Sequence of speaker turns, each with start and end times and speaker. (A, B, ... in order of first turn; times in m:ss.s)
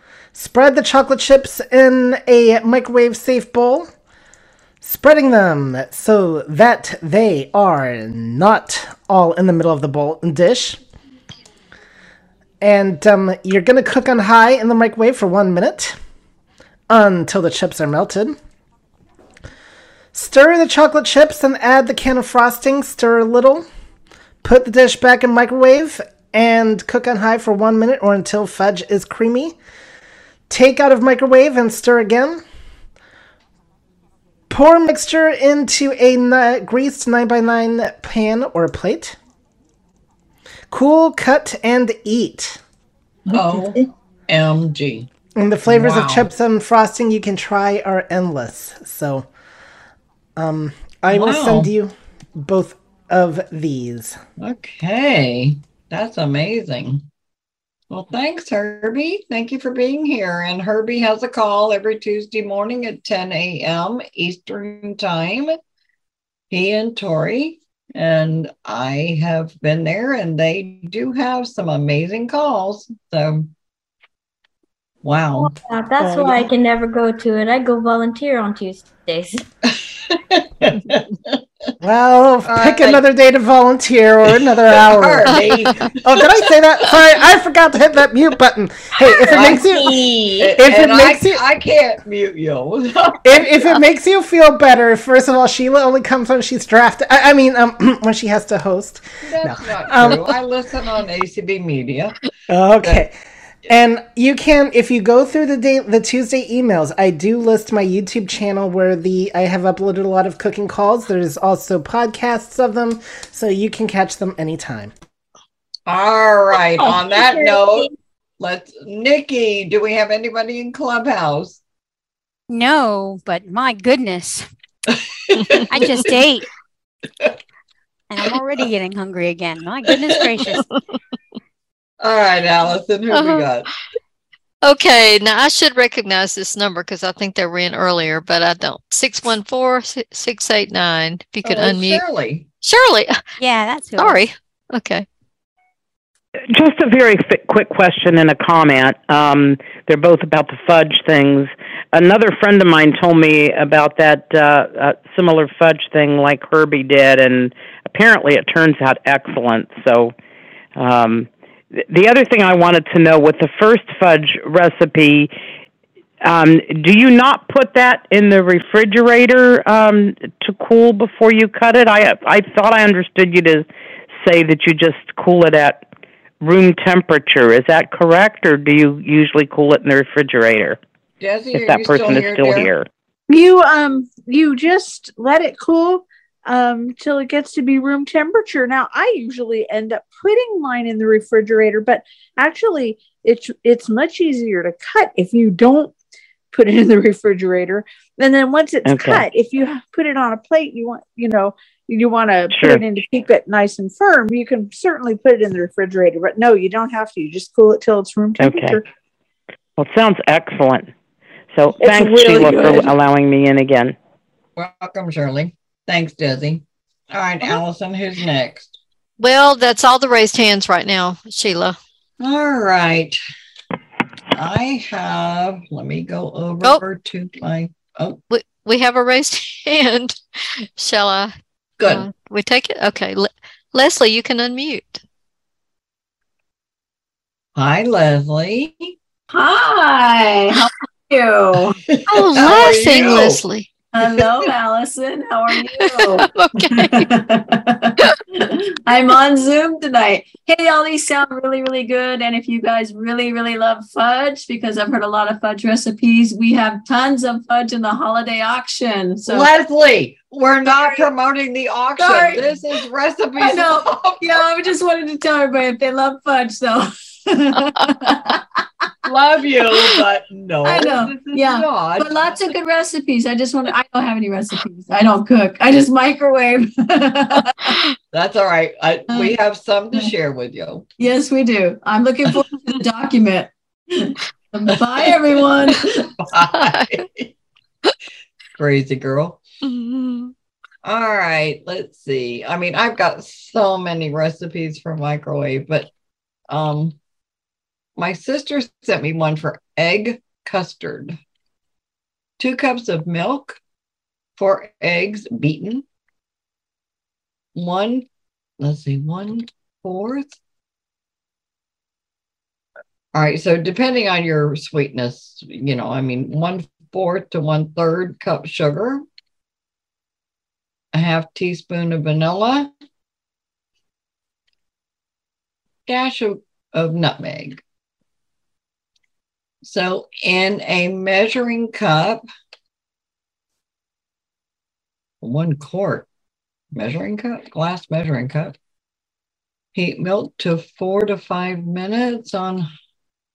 0:00.3-0:03.9 A
0:04.8-0:10.8 A
0:12.6-0:16.0 A
0:16.9-0:18.4 A
0:20.1-0:23.7 A
0:24.4-0:29.6 A
0:30.5-0:32.4 A
0:34.5-0:39.2 A
0:40.7-0:42.6 A
0:43.3-0:45.1 B
0:45.4-0:49.3 A
0:45.7-0:46.3 B
0:50.4-0:54.2 A
0:51.1-0:51.7 B
0:54.4-0:57.0 B
0:57.9-1:05.6 B
1:06.5-1:13.5 B
1:15.0-1:15.5 B
1:15.4-1:19.4 C
1:16.0-1:16.5 A
1:19.7-1:21.4 B
1:21.8-1:25.4 A
1:22.4-1:23.0 B
1:24.3-1:26.3 B
1:26.0-1:31.4 A
1:29.1-1:33.5 B
1:33.2-1:40.3 A
1:39.2-1:42.2 B
1:42.5-1:43.1 A
1:43.7-1:54.9 A
1:55.9-2:01.6 B
2:02.5-2:04.5 D
2:05.5-2:06.0 B
2:05.7-2:06.5 D
2:08.1-2:10.6 D
2:12.0-2:13.7 B
2:13.1-2:13.5 E
2:14.6-2:22.0 E
2:21.4-2:22.4 B
2:22.6-2:23.2 E
2:23.4-2:24.2 D
2:24.0-2:25.1 E
2:26.5-2:40.1 F
2:40.8-2:41.3 F
2:41.9-2:45.3 F
2:46.2-2:53.7 F
2:54.2-2:55.8 F
2:56.4-3:00.8 F
3:01.2-3:02.7 B
3:01.5-3:02.9 F
3:03.3-3:15.9 G
3:16.5-3:28.8 G
3:18.8-3:19.2 F
3:22.5-3:22.8 F
3:28.4-3:28.8 F
3:29.8-3:30.9 F
3:31.5-3:34.0 F
3:31.9-3:32.8 B
3:34.6-3:38.8 B
3:39.2-3:41.8 E
3:42.2-3:43.2 B
3:44.3-3:48.2 B
3:48.3-3:50.2 E
3:50.8-3:55.0 E
3:51.8-3:52.1 B
3:57.6-3:58.9 B
3:59.3-4:01.8 H
4:01.9-4:03.4 B
4:02.1-4:03.7 E
4:03.9-4:06.3 H
4:05.8-4:07.0 E
4:06.8-4:19.5 H
4:19.3-4:24.4 B
4:22.0-4:22.6 H
4:23.4-4:27.2 H
4:27.8-4:28.4 H
4:29.0-4:32.4 B
4:30.6-4:37.7 H
4:38.1-4:40.9 B
4:39.1-4:39.4 H
4:41.0-4:45.9 H
4:45.0-4:45.4 B
4:46.2-4:47.3 B
4:46.5-4:47.0 E
4:48.6-4:49.4 B
4:49.6-4:50.3 E
4:50.8-4:55.9 B
4:56.5-4:57.0 B
4:58.0-5:01.2 B
5:02.4-5:03.6 B
5:04.4-5:05.8 B
5:07.6-5:08.0 B
5:08.6-5:10.4 B
5:13.1-5:19.0 B
5:20.9-5:22.7 B
5:25.9-5:27.6 B
5:29.6-5:32.2 B
5:35.2-5:36.1 B
5:36.7-5:38.6 B
5:39.8-5:42.7 B